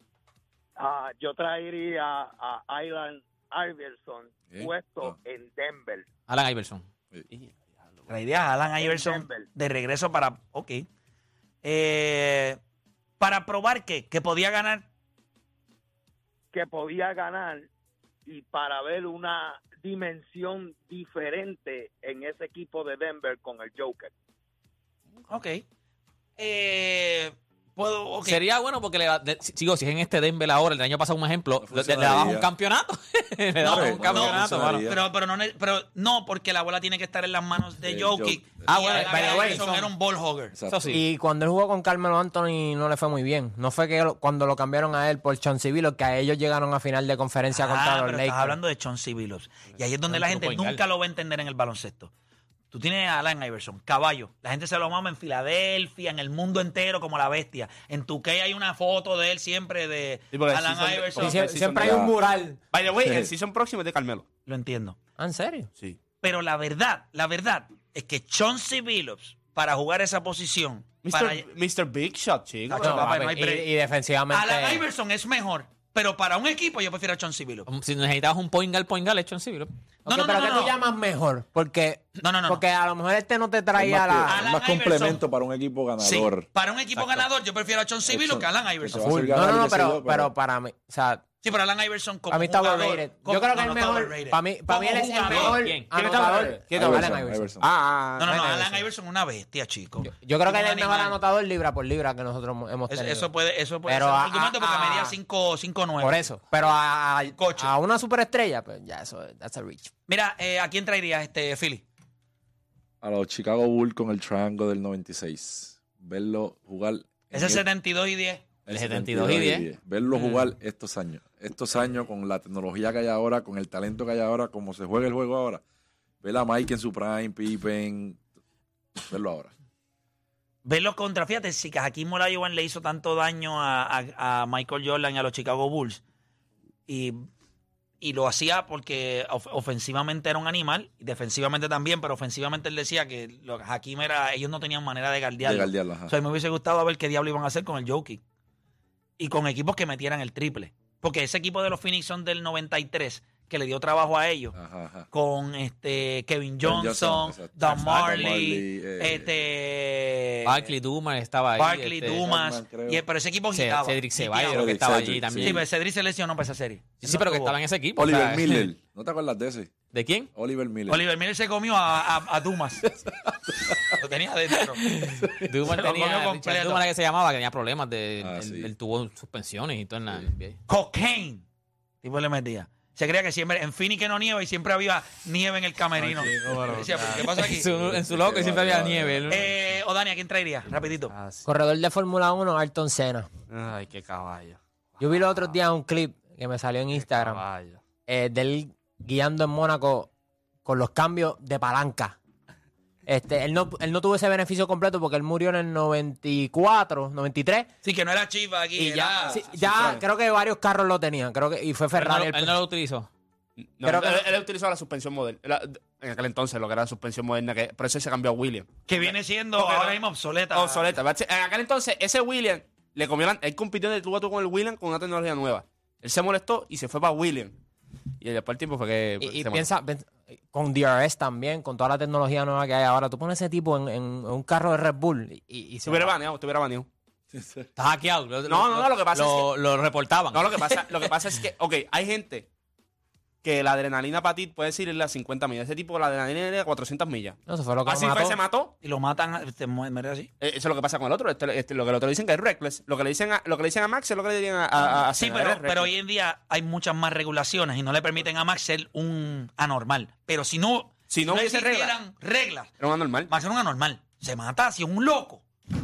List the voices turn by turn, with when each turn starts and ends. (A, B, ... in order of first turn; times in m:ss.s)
0:00.8-0:06.1 A
0:04.5-0:05.2 B
0:06.3-0:06.8 C
0:07.3-0:08.2 D
0:08.1-0:10.9 E
0:08.8-0:09.5 A
0:11.6-0:12.6 E
0:13.2-0:14.9 E
0:16.5-0:17.7 A
0:18.3-0:24.1 A
0:25.3-0:25.6 E
0:26.4-0:28.4 E
0:28.2-0:34.9 C
0:31.6-0:32.5 B
0:33.6-0:35.0 B
0:33.6-0:40.6 E
0:37.8-0:38.6 B
0:38.7-0:39.9 C
0:38.7-0:39.7 F
0:40.5-0:41.0 B
0:40.7-0:41.0 C
0:40.9-0:48.6 F
0:47.5-0:52.1 E
0:50.1-0:50.8 C
0:52.7-1:01.4 E
1:00.3-1:02.1 D
1:01.2-1:02.6 F
1:01.8-1:02.1 B
1:02.7-1:04.3 D
1:03.0-1:03.3 B
1:04.5-1:05.0 E
1:05.2-1:05.7 F
1:06.2-1:11.4 E
1:11.0-1:13.3 D
1:12.7-1:13.7 E
1:12.8-1:14.8 F
1:14.3-1:17.7 E
1:17.7-1:19.7 C
1:20.1-1:20.8 E
1:20.1-1:24.4 F
1:22.2-1:22.6 E
1:23.8-1:26.5 B
1:24.3-1:25.2 E
1:26.0-1:29.3 E
1:28.1-1:30.3 B
1:29.0-1:31.2 F
1:31.4-1:35.6 E
1:32.3-1:37.6 F
1:35.3-1:35.9 C
1:35.9-1:38.4 D
1:36.7-1:37.7 B
1:38.2-1:41.2 E
1:38.2-1:38.9 F
1:40.0-1:43.3 F
1:42.9-1:46.2 E
1:43.9-1:45.2 F
1:46.0-1:49.9 F
1:47.4-1:47.7 E
1:50.1-1:51.8 E
1:53.0-1:57.6 B
1:57.3-1:58.5 E
1:58.7-2:05.6 B
1:58.7-2:00.5 C
2:06.2-2:08.2 B
2:09.1-2:09.5 B
2:10.6-2:16.0 E
2:16.9-2:17.2 E
2:18.0-2:28.2 E
2:25.4-2:26.1 B
2:29.2-2:34.6 E
2:34.5-2:35.1 B
2:35.1-2:40.8 E
2:36.6-2:39.5 B
2:40.4-2:42.2 C
2:41.6-2:47.6 E
2:42.1-2:43.0 B
2:43.5-2:45.6 C
2:44.5-2:45.6 B
2:47.0-2:48.7 C
2:48.0-2:51.0 B
2:49.9-2:50.3 C
2:50.9-2:52.8 E
2:53.0-2:53.8 B
2:54.0-2:54.8 E
2:54.8-3:00.6 C
2:55.7-2:56.9 E
2:58.2-2:58.7 B
3:00.7-3:01.4 E
3:02.0-3:07.7 E
3:06.0-3:08.4 D
3:07.3-3:09.4 C
3:08.0-3:09.4 B
3:09.3-3:11.1 E
3:10.7-3:11.4 D
3:11.4-3:13.3 F
3:13.5-3:15.6 D
3:15.0-3:17.4 F
3:16.9-3:17.8 D
3:18.1-3:20.1 F
3:20.6-3:22.2 F
3:23.1-3:27.7 F
3:27.8-3:29.4 E
3:28.8-3:32.6 F
3:29.6-3:30.0 D
3:32.0-3:33.1 C
3:33.6-3:40.0 D
3:33.8-3:34.3 F
3:38.9-3:40.9 E
3:40.5-3:47.6 D
3:48.2-3:49.7 D
3:49.2-3:56.2 F
3:55.8-3:56.9 D
3:57.3-3:57.7 B
3:57.8-4:01.2 C
3:58.5-3:59.6 D
4:00.3-4:02.5 D
4:03.4-4:08.7 D
4:07.5-4:08.4 F
4:08.8-4:10.3 E
4:10.4-4:15.9 D
4:15.1-4:22.7 E
4:21.1-4:22.0 D
4:22.8-4:23.3 D
4:23.3-4:25.4 E